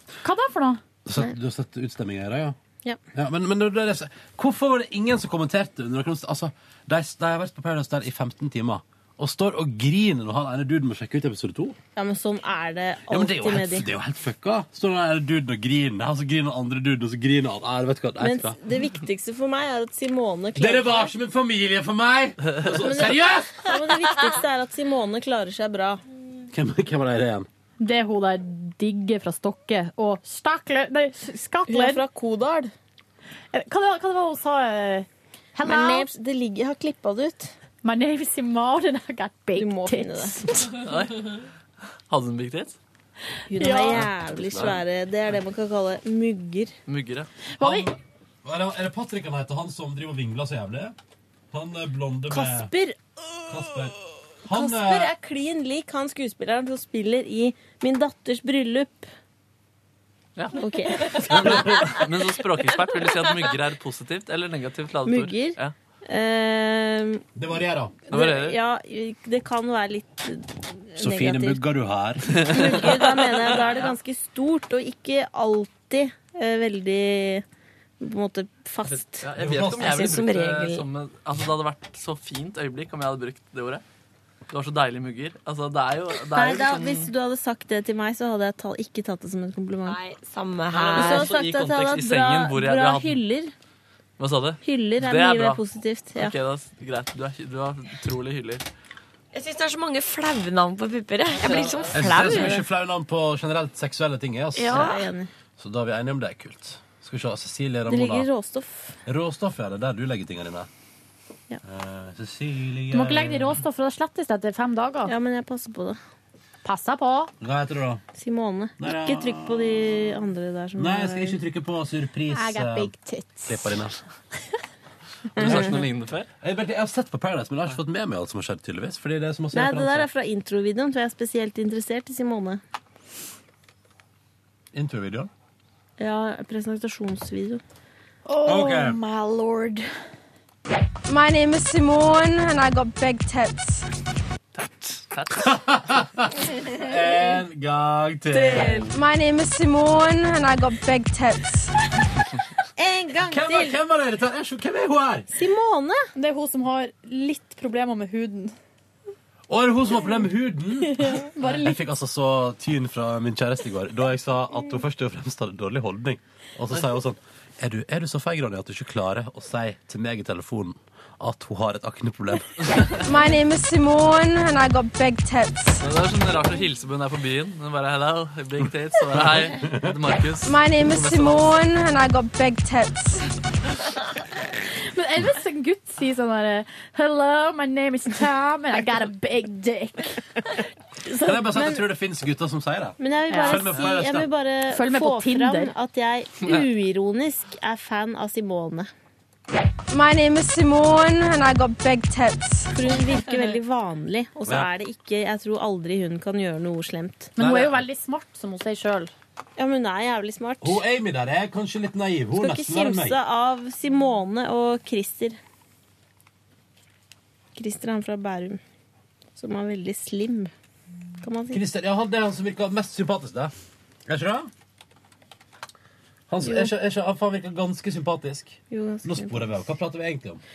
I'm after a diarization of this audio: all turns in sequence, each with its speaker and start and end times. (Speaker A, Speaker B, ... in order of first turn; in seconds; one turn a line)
Speaker A: 0.2-0.8
Speaker B: 1.1-2.6
Speaker B: 3.1-11.8
Speaker C: 11.9-13.9
Speaker B: 13.1-18.6
Speaker C: 18.2-21.1
Speaker B: 20.6-23.6
Speaker C: 22.8-26.0
Speaker B: 26.5-27.5
Speaker A: 27.8-32.0
Speaker C: 31.7-32.7
Speaker A: 33.5-36.1
Speaker C: 35.6-37.5
Speaker A: 37.8-40.7
Speaker C: 39.5-40.4
Speaker D: 40.8-41.5
Speaker D: 42.1-42.8
Speaker C: 43.5-46.7
Speaker A: 43.6-44.0
Speaker B: 44.0-44.8
Speaker D: 46.9-47.3
Speaker A: 47.6-47.9
Speaker B: 47.6-51.0
Speaker B: 51.5-52.7
Speaker C: 52.3-53.0
Speaker B: 53.5-55.1
Speaker C: 54.5-59.1
Speaker D: 60.4-61.1
Speaker C: 60.5-62.0
Speaker B: 61.3-61.9
Speaker D: 61.9-65.7
Speaker C: 65.0-67.2
Speaker B: 67.3-68.0
Speaker C: 68.1-71.6
Speaker D: 68.1-68.6
Speaker B: 71.0-72.7
Speaker D: 72.3-73.9
Speaker C: 72.5-77.4
Speaker C: 78.0-79.3
Speaker D: 78.9-83.8
Speaker B: 79.3-80.1
Speaker E: 79.8-80.8
Speaker D: 84.5-87.1
Speaker C: 86.3-90.0
Speaker E: 89.8-91.4
Speaker D: 90.7-93.2
Speaker C: 90.8-93.5
Speaker D: 94.2-95.6
Speaker C: 94.6-96.3
Speaker D: 96.1-98.6
Speaker E: 99.3-102.6
Speaker D: 101.4-101.9
Speaker B: 101.9-104.8
Speaker E: 104.6-105.1
Speaker C: 104.7-105.3
Speaker B: 105.6-108.3
Speaker C: 107.9-109.0
Speaker B: 109.1-110.7
Speaker B: 111.6-113.6
Speaker A: 112.9-115.1
Speaker C: 115.0-116.0
Speaker A: 116.6-117.3
Speaker B: 117.4-118.0
Speaker C: 118.1-121.4
Speaker B: 118.8-119.7
Speaker B: 120.8-122.9
Speaker A: 122.3-123.8
Speaker B: 123.5-123.9
Speaker D: 125.3-126.3
Speaker C: 125.4-125.7
Speaker B: 125.4-125.9
Speaker B: 126.4-130.1
Speaker C: 129.5-132.6
Speaker B: 134.7-135.3
Speaker C: 136.0-137.6
Speaker A: 138.3-139.9
Speaker B: 138.4-139.0
Speaker F: 141.1-143.9
Speaker D: 144.6-145.6
Speaker B: 145.3-148.9
Speaker C: 148.3-148.9
Speaker F: 148.9-151.7
Speaker C: 152.8-153.8
Speaker B: 153.3-155.3
Speaker C: 155.3-156.0
Speaker A: 156.1-158.5
Speaker B: 159.5-172.5
Speaker A: 161.0-161.8
Speaker D: 172.6-173.1
Speaker F: 173.0-175.8
Speaker D: 175.8-181.6
Speaker B: 179.1-179.9
Speaker F: 180.4-183.2
Speaker A: 184.8-190.2
Speaker B: 191.2-194.3
Speaker C: 191.3-191.8
Speaker C: 193.0-198.9
Speaker A: 193.3-193.7
Speaker A: 194.7-195.7
Speaker F: 199.9-202.7
Speaker C: 202.7-207.3
Speaker A: 207.3-209.1
Speaker B: 207.4-207.8
Speaker C: 209.6-210.8
Speaker B: 210.6-213.2
Speaker C: 212.3-215.4
Speaker C: 217.5-218.6
Speaker C: 219.3-220.5
Speaker C: 221.2-221.6
Speaker B: 221.5-223.5
Speaker B: 224.1-224.5
Speaker B: 226.3-230.4
Speaker C: 226.4-226.7
Speaker C: 228.7-229.4